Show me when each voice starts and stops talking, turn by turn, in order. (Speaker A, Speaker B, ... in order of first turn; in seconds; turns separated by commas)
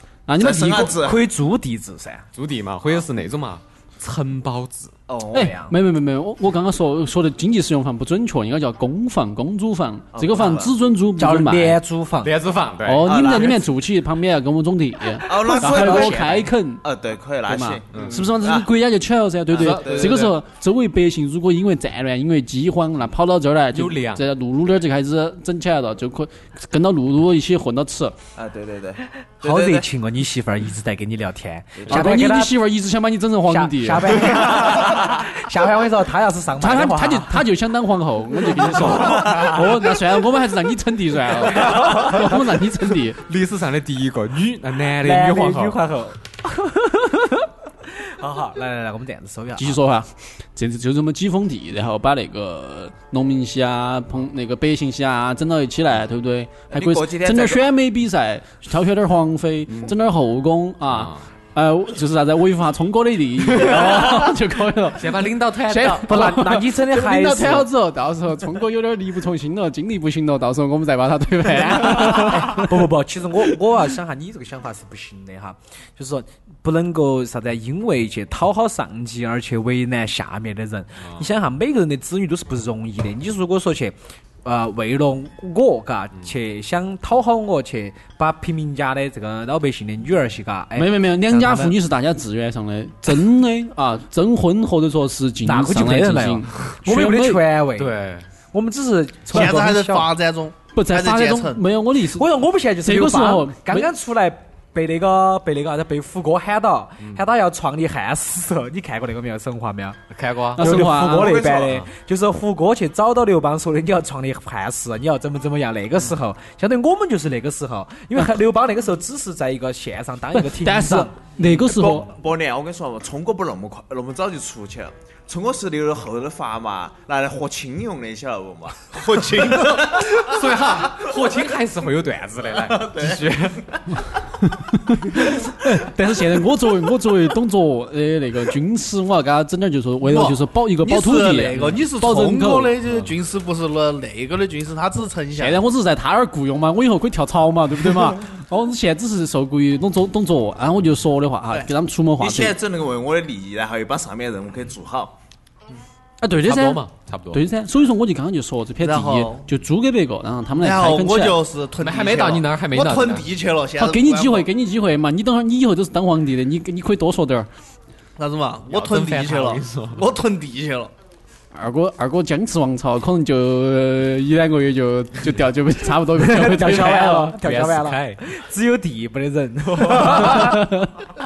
Speaker A: 0.3-1.0, Speaker B: 0.4-1.2, Speaker C: 0.9-2.2, Speaker D: 2.3-4.9, Speaker B: 5.1-5.6, Speaker A: 5.3-11.8, Speaker C: 5.5-5.7, Speaker B: 10.1-10.7, Speaker C: 11.2-12.3, Speaker D: 12.2-13.2, Speaker A: 12.8-16.8, Speaker B: 13.1-13.7, Speaker B: 15.2-18.7, Speaker C: 15.5-16.3, Speaker A: 17.5-28.1, Speaker D: 17.9-18.3, Speaker D: 19.5-20.3, Speaker B: 19.5-20.3, Speaker D: 23.7-24.2, Speaker B: 28.4-29.9, Speaker C: 29.4-32.6, Speaker B: 31.8-32.1, Speaker A: 31.9-34.4, Speaker C: 33.5-37.5, Speaker A: 36.6-43.2, Speaker C: 38.8-39.4, Speaker C: 41.7-42.1, Speaker D: 43.2-45.8, Speaker C: 45.0-49.8, Speaker A: 49.6-72.8, Speaker B: 56.7-57.6, Speaker D: 60.9-61.2, Speaker D: 63.6-63.9, Speaker D: 65.0-66.3, Speaker C: 66.0-67.7, Speaker C: 71.8-91.8, Speaker D: 81.0-81.3, Speaker A: 90.8-97.4, Speaker C: 95.4-97.9, Speaker D: 97.8-98.3, Speaker C: 98.5-100.1, Speaker E: 99.3-101.6, Speaker A: 100.7-102.3, Speaker C: 102.1-110.0, Speaker A: 102.8-103.9, Speaker D: 110.1-111.9, Speaker A: 110.6-111.5, Speaker C: 110.6-121.2, Speaker A: 120.4-122.1, Speaker B: 121.4-130.2, Speaker E: 128.9-130.0, Speaker D: 129.5-133.7, Speaker B: 132.6-133.3, Speaker A: 134.5-142.8, Speaker E: 140.0-145.6, Speaker D: 142.8-143.1, Speaker A: 145.3-152.6, Speaker B: 152.2-155.2, Speaker A: 156.2-161.4, Speaker D: 156.4-157.4, Speaker E: 158.8-159.5, Speaker E: 160.6-164.5, Speaker D: 161.8-163.3, Speaker A: 163.8-167.5, Speaker E: 168.2-170.9, Speaker D: 168.7-170.1, Speaker A: 171.5-177.9, Speaker C: 176.2-180.9, Speaker D: 177.4-177.9, Speaker A: 180.3-180.9